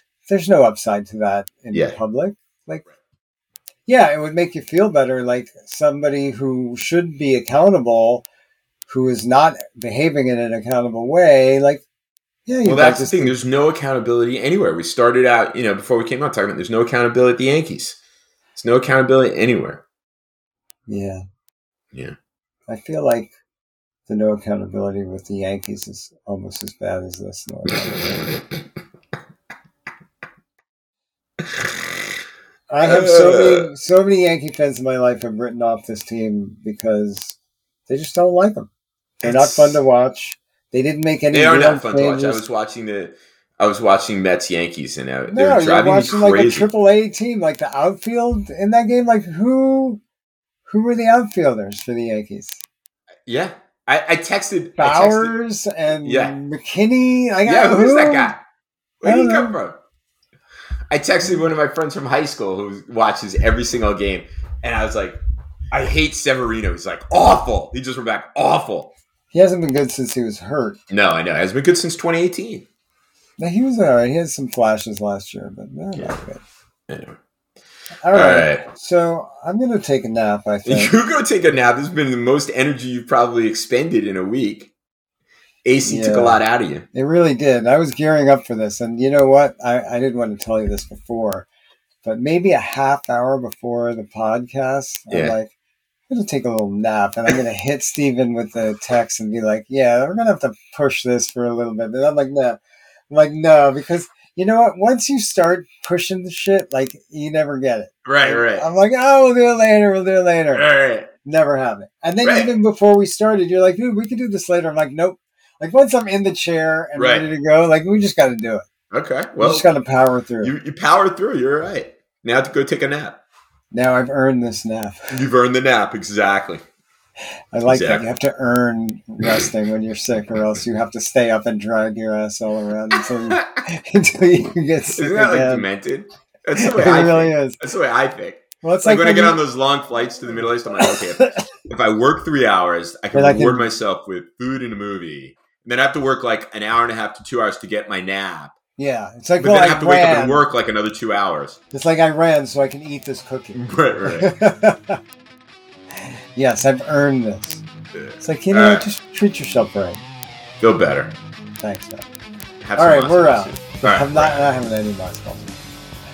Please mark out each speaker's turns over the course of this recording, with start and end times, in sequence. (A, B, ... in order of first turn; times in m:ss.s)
0:00.3-0:02.8 A
0:01.7-0:02.0 B
0:03.9-0:08.2 A
0:08.9-0:11.8 A
0:12.5-0:13.4 A
0:12.6-0:18.0 B
0:18.6-0:19.8 B
0:20.9-0:21.2 A
0:22.7-0:23.3 A
0:24.1-0:28.3 A
0:31.4-0:31.9 B
0:32.7-0:37.4 A
0:32.8-0:33.7 B
0:37.9-0:38.7 A
0:39.2-0:39.8 B
0:39.2-0:42.4 A
0:41.3-0:46.7 B
0:45.3-0:50.0 A
0:50.7-0:52.6 A
0:53.3-0:55.4 B
0:54.8-0:58.3 A
0:56.0-0:56.4 B
0:57.4-0:58.4 B
0:59.0-0:59.8 B
0:59.0-0:59.6 A
1:00.9-1:05.2 B
1:05.7-1:09.0 B
1:09.3-1:10.8 A
1:10.9-1:12.7 B
1:13.4-1:16.4 A
1:16.9-1:17.2 B
1:18.0-1:20.9 A
1:18.1-1:18.6 B
1:20.6-1:24.7 B
1:25.6-1:26.9 B
1:25.8-1:26.4 A
1:26.9-1:31.5 A
1:32.0-1:35.5 A
1:35.1-1:35.4 B
1:36.1-1:42.6 A
1:43.1-1:50.7 A
1:48.0-1:48.7 B
1:50.5-1:51.1 B
1:51.2-1:58.7 A
1:52.2-1:52.5 B
1:57.0-1:57.3 B
1:58.9-1:59.7 B
1:59.4-2:00.5 A
2:00.4-2:03.2 B
2:03.7-2:05.1 A
2:05.1-2:06.6 B
2:07.5-2:15.7 A
2:07.7-2:08.0 B
2:12.9-2:13.6 B
2:14.9-2:28.6 B
2:16.6-2:17.6 A
2:18.6-2:19.4 A
2:20.8-2:21.5 A
2:23.1-2:23.7 A
2:28.8-2:30.4 A
2:29.4-2:31.6 B
2:31.7-2:35.0 A
2:33.6-2:34.3 B
2:36.0-2:37.6 A
2:38.0-2:38.9 B
2:38.2-2:40.0 A
2:40.6-2:41.1 B
2:41.6-2:42.0 A
2:42.6-2:44.6 B
2:42.8-2:45.5 A